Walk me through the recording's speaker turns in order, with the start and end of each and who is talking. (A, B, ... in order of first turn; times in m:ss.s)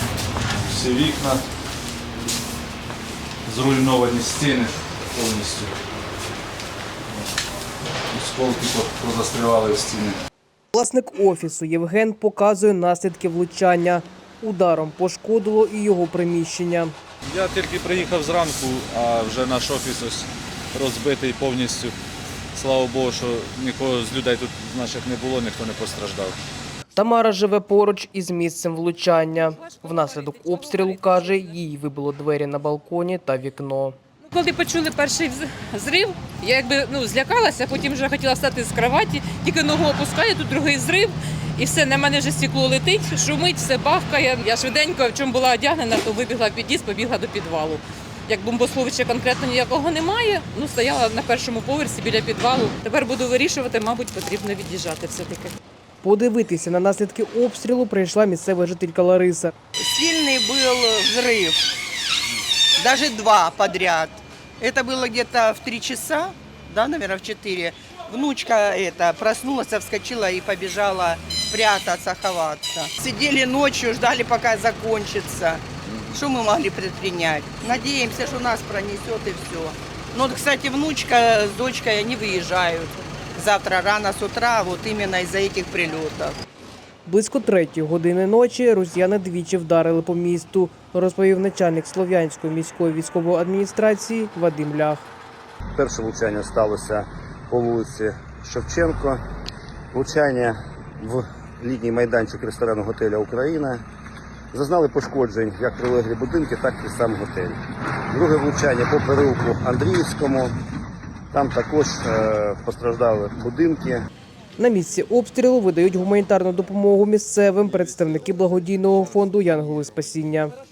0:00.7-0:01.4 A
0:03.4-0:05.7 A
0:08.1-0:10.2 A
0:10.7-0:16.9 B
0:17.3-0:22.0 A
0:22.5-0:26.4 A
0:26.9-0:34.0 B
0:29.6-0:31.4 C
0:34.3-0:55.5 C
0:56.0-0:59.5 B
0:59.8-1:01.7 D
1:02.8-1:26.4 D
1:27.0-1:35.0 B
1:35.8-1:39.2 E
1:39.9-1:43.8 E
1:44.5-1:47.6 E
1:48.1-1:50.6 E
1:51.3-1:54.0 E
1:54.6-2:00.5 B